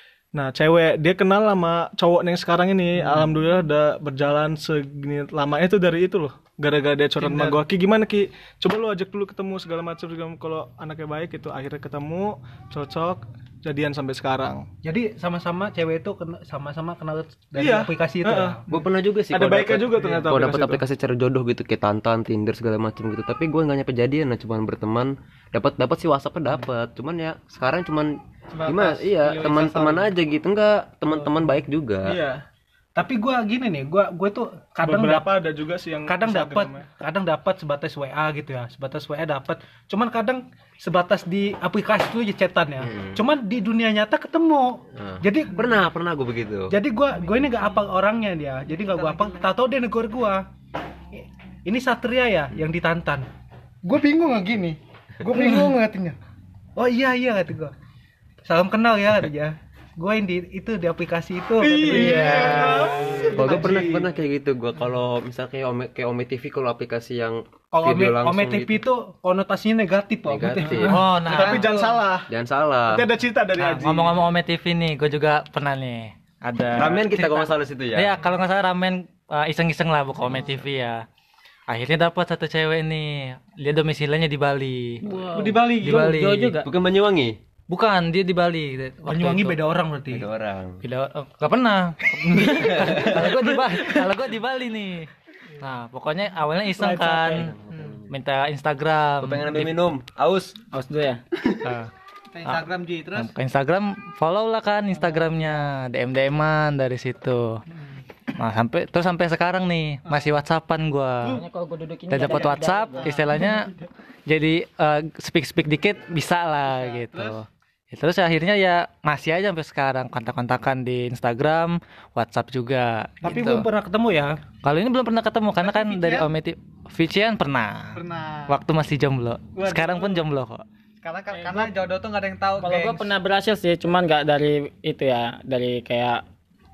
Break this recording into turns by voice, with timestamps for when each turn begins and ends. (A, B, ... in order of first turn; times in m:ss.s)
0:00.3-0:14.7 A
0:07.2-0:07.6 B
0:14.8-0:18.6 B
0:17.6-0:20.8 A
0:18.7-0:32.2 C
0:28.6-0:30.1 D
0:32.0-0:32.4 A
0:33.0-0:35.3 B
0:34.8-0:36.8 A
0:36.0-0:45.6 B
0:42.8-0:43.2 C
0:45.0-0:46.8 C
0:46.7-0:50.5 B
0:48.9-0:49.5 D
0:51.1-0:53.3 B
0:53.8-0:56.2 B
0:56.8-0:57.7 B
0:58.4-1:03.8 B
1:01.6-1:04.1 A
1:01.9-1:03.5 E
1:03.4-1:08.8 C
1:07.7-1:11.1 B
1:10.3-1:11.2 C
1:10.8-1:11.8 F
1:11.2-1:11.9 D
1:11.2-1:12.3 A
1:12.3-1:13.0 C
1:12.9-1:14.2 A
1:13.6-1:21.0 F
1:16.8-1:18.2 C
1:21.7-1:25.0 F
1:25.2-1:26.7 E
1:25.3-1:26.1 B
1:25.6-1:26.6 F
1:26.6-1:27.4 C
1:27.7-1:29.6 F
1:29.0-1:30.3 B
1:30.1-1:30.8 C
1:30.8-1:37.5 F
1:32.4-1:33.2 C
1:36.7-1:37.5 E
1:37.3-1:38.1 C
1:37.7-1:38.0 D
1:38.1-1:39.8 F
1:39.2-1:40.6 C
1:40.7-1:41.4 E
1:41.5-1:41.9 F
1:42.3-1:43.3 D
1:42.4-1:47.6 F
1:45.2-1:45.5 E
1:48.3-1:51.4 F
1:51.2-1:53.8 E
1:52.1-1:53.7 F
1:54.3-2:03.7 F
1:56.9-1:57.3 D
2:03.2-2:04.4 B
2:04.6-2:10.6 F
2:05.6-2:06.3 D
2:08.0-2:08.6 D
2:09.6-2:10.2 A
2:11.0-2:13.1 D
2:12.6-2:16.2 E